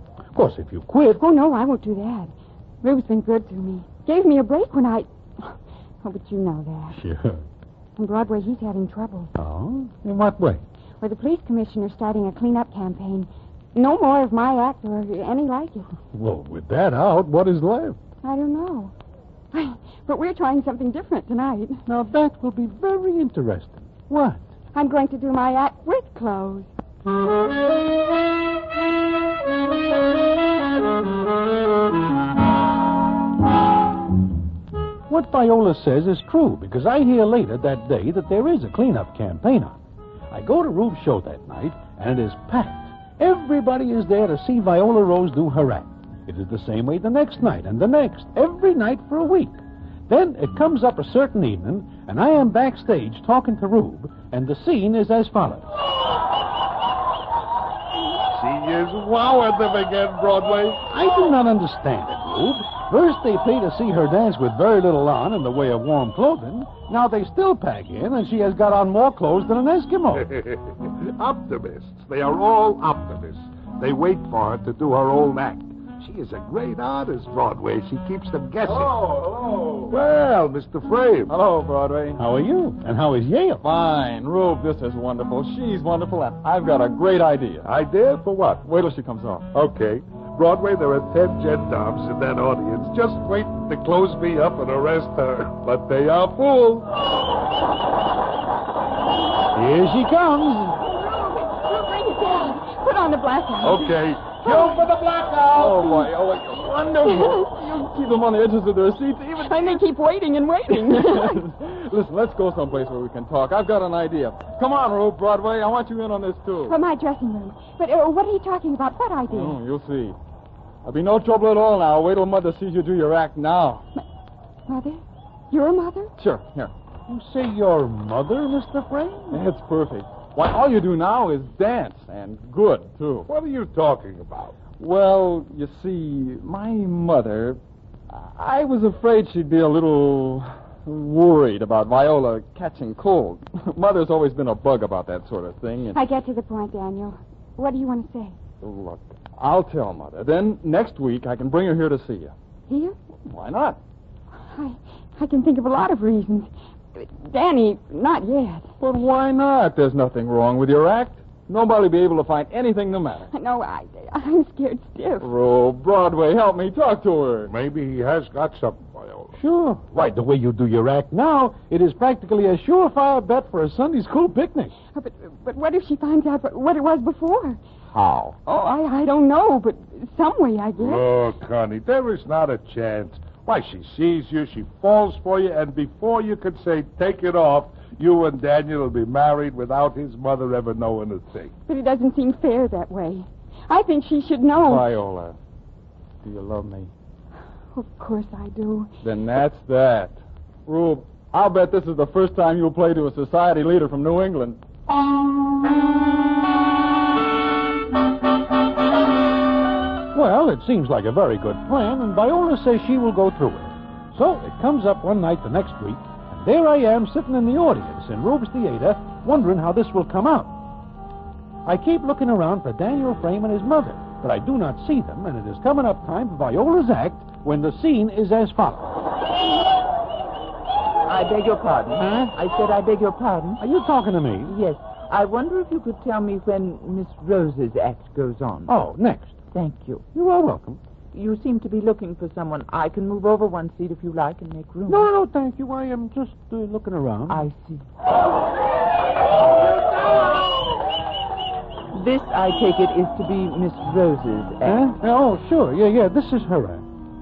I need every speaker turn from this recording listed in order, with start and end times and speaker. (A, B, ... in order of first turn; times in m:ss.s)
0:00.3-0:01.2 A
0:01.2-0:07.0 B
0:06.9-0:07.4 A
0:08.0-0:09.3 B
0:09.4-0:10.6 A
0:11.0-0:15.9 B
0:16.1-0:18.0 A
0:18.2-0:18.9 B
0:19.5-0:21.8 B
0:21.9-0:24.4 A
0:24.7-0:26.7 B
0:35.1-0:55.7 A
0:58.4-1:00.8 C
1:00.9-1:10.3 A
1:10.1-1:18.9 C
1:18.6-1:20.0 D
1:19.9-1:21.3 C
1:21.3-1:22.2 D
1:22.2-1:23.6 A
1:23.6-1:27.7 D
1:27.6-1:28.6 C
1:28.6-1:29.5 D
1:29.5-1:36.9 C
1:39.5-1:40.8 A
1:40.8-1:44.7 B
1:43.6-1:46.1 C
1:45.5-1:49.8 D
1:47.1-1:47.5 B
1:49.4-1:51.4 B
1:50.7-1:56.8 D
1:56.7-1:59.6 B
1:59.3-2:00.2 D
2:00.8-2:03.8 D
2:04.7-2:06.1 B
2:06.2-2:06.7 D
2:07.1-2:09.4 A
2:09.3-2:13.3 D
2:13.3-2:14.6 C
2:14.8-2:26.0 D
2:25.9-2:28.4 B
2:28.6-2:32.3 D
2:32.7-2:33.0 B
2:33.2-2:33.8 D
2:34.5-2:38.7 B
2:38.8-2:43.3 D
2:43.3-2:45.3 B
2:45.2-2:47.5 D
2:47.5-2:49.4 C
2:49.4-2:54.7 A
2:55.0-2:57.6 B
2:57.9-2:58.4 D
2:58.5-3:01.1 B
3:00.8-3:11.5 C
3:11.7-3:14.8 B
3:14.6-3:15.4 D
3:16.2-3:16.9 D
3:17.8-3:18.9 B
3:19.0-3:24.6 D
3:30.1-3:40.6 A
3:41.6-3:49.0 A
3:51.0-3:53.6 E
3:52.0-3:52.4 A
3:53.6-3:54.6 A
3:54.4-3:58.7 E
3:58.7-3:59.4 A
3:59.5-4:00.1 E
4:00.1-4:00.8 A
4:01.1-4:05.1 E
4:04.9-4:07.5 A
4:07.3-4:07.9 E
4:11.9-4:14.9 E
4:14.6-4:16.8 A